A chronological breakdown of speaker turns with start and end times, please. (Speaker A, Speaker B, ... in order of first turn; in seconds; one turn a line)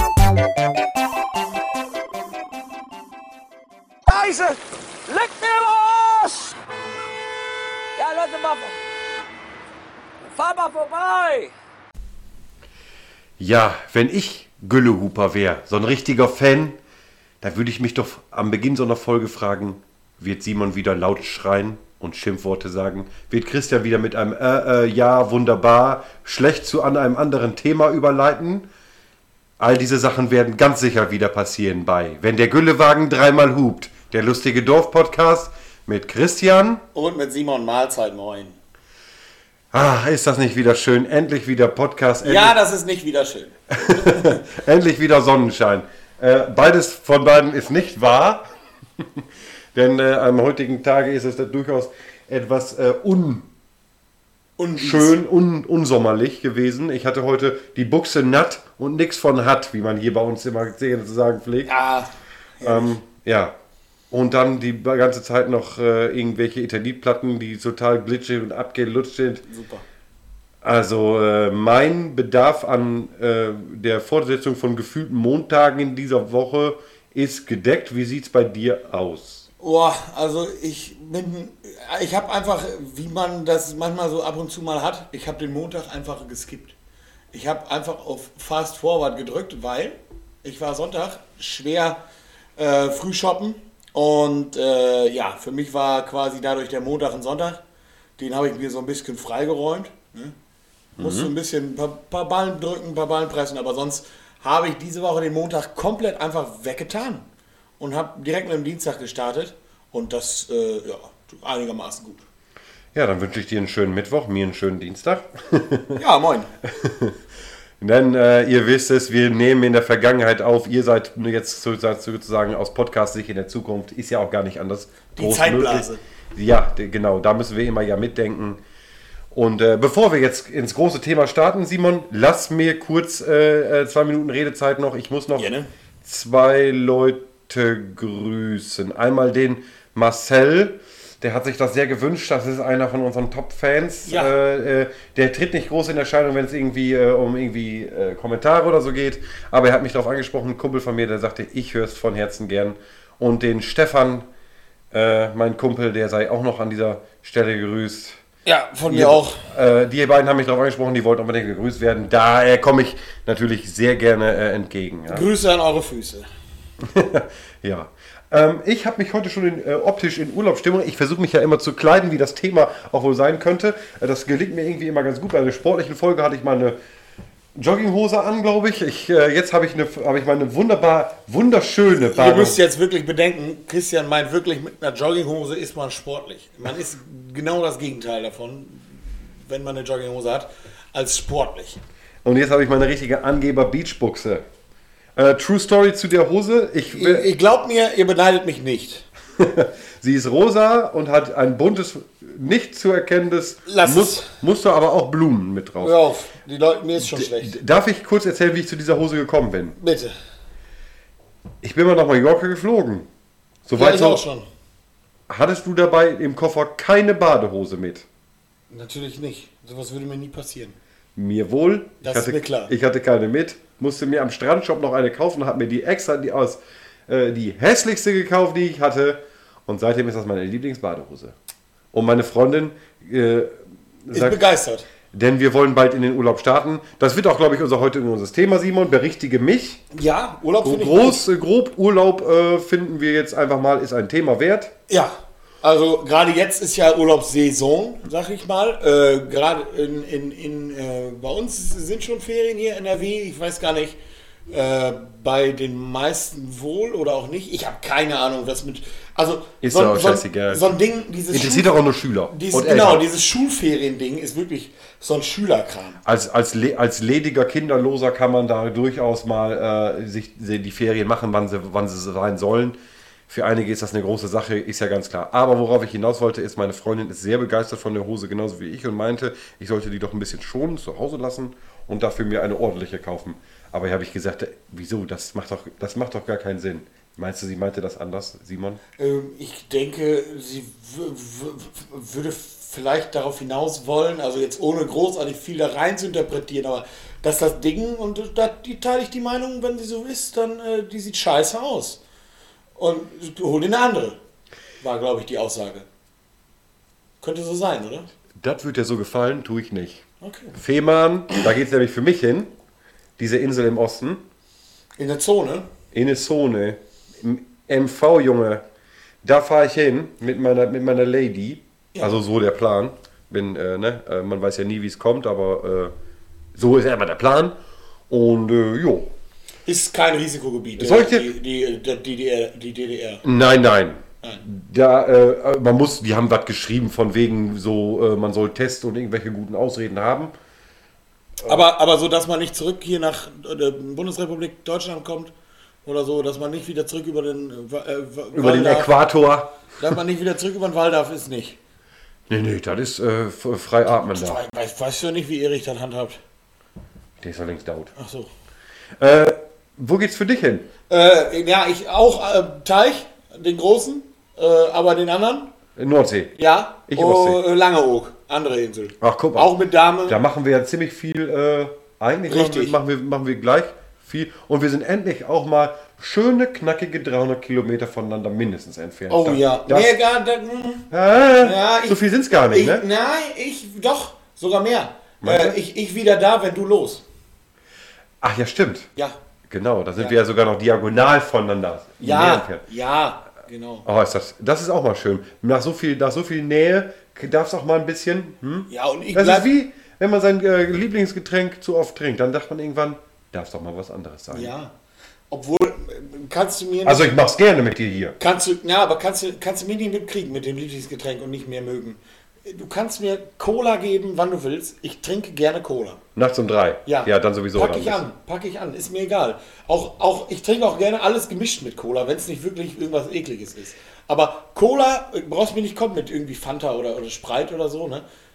Speaker A: 4.2-4.6
Speaker A: 5.1-6.5
Speaker A: 8.0-8.7
Speaker A: 10.4-11.5
Speaker B: 13.4-16.8
Speaker B: 17.4-28.7
Speaker B: 29.6-36.8
Speaker C: 36.9-38.6
Speaker B: 39.7-42.6
Speaker C: 42.2-44.4
Speaker B: 43.7-48.4
Speaker B: 49.0-49.2
Speaker B: 49.8-53.5
Speaker C: 54.6-55.2
Speaker B: 54.8-61.7
Speaker C: 61.7-63.0
Speaker B: 62.6-63.5
Speaker B: 64.1-69.4
Speaker C: 69.5-69.8
Speaker B: 70.6-79.5
Speaker C: 79.6-86.8
Speaker C: 87.3-92.0
Speaker C: 92.6-97.6
Speaker C: 98.2-100.3
Speaker B: 101.0-101.3
Speaker C: 101.0-107.2
Speaker C: 107.8-112.2
Speaker B: 112.9-116.0
Speaker C: 116.0-116.5
Speaker B: 116.6-117.2
Speaker B: 117.8-128.6
Speaker C: 125.2-126.0
Speaker B: 129.3-154.3
Speaker C: 135.4-135.7
Speaker C: 144.1-144.3
Speaker B: 154.9-158.2
Speaker C: 158.5-159.4
Speaker B: 158.9-165.3
Speaker C: 165.1-166.3
Speaker B: 166.8-176.8
Speaker B: 177.6-182.6
Speaker C: 182.0-191.8
Speaker B: 192.2-194.4
Speaker B: 195.2-197.3
Speaker C: 196.9-199.1
Speaker B: 199.4-206.0
Speaker C: 203.7-204.3
Speaker C: 205.8-207.6
Speaker B: 207.0-209.8
Speaker C: 209.8-210.1
Speaker B: 211.6-213.1
Speaker B: 213.7-214.2
Speaker C: 213.8-214.5
Speaker B: 215.3-218.1
Speaker C: 218.7-220.8
Speaker B: 221.2-231.3
Speaker C: 222.0-222.7
Speaker B: 231.9-234.4
Speaker C: 234.1-234.9
Speaker B: 235.1-239.8
Speaker C: 239.9-241.2
Speaker B: 240.6-244.7
Speaker C: 244.9-254.0
Speaker C: 254.5-261.7
Speaker B: 259.6-260.6
Speaker B: 261.3-263.1
Speaker C: 262.3-266.0
Speaker B: 266.1-272.8
Speaker B: 273.3-288.8
Speaker C: 289.0-302.0
Speaker C: 302.8-304.2
Speaker C: 304.8-305.9
Speaker C: 307.2-308.1
Speaker B: 308.4-310.0
Speaker C: 310.2-310.6
Speaker B: 310.6-312.5
Speaker B: 313.2-314.2
Speaker C: 315.0-315.7
Speaker B: 315.9-318.6
Speaker B: 319.2-325.9
Speaker B: 326.6-327.6
Speaker B: 328.1-329.1
Speaker C: 329.7-333.2
Speaker B: 330.8-331.3
Speaker B: 333.2-340.3
Speaker C: 341.4-345.3
Speaker C: 345.9-348.9
Speaker B: 348.3-349.5
Speaker C: 349.8-351.6
Speaker B: 352.3-354.4
Speaker C: 354.1-356.2
Speaker B: 357.2-357.9
Speaker C: 358.0-358.3
Speaker B: 359.0-360.7
Speaker C: 360.9-365.5
Speaker B: 365.8-366.4
Speaker C: 366.4-370.2
Speaker B: 366.9-367.4
Speaker B: 369.0-369.5
Speaker B: 370.1-379.9
Speaker C: 372.3-372.8
Speaker C: 379.1-380.9
Speaker B: 380.9-382.9
Speaker C: 381.4-387.0
Speaker B: 385.2-385.6
Speaker B: 388.2-388.9
Speaker B: 389.5-392.6
Speaker C: 392.0-393.9
Speaker B: 393.9-404.5
Speaker C: 398.7-399.5
Speaker C: 404.3-404.7
Speaker C: 405.3-407.1
Speaker B: 406.9-408.2
Speaker C: 408.2-416.0
Speaker B: 416.2-418.0
Speaker C: 416.9-428.0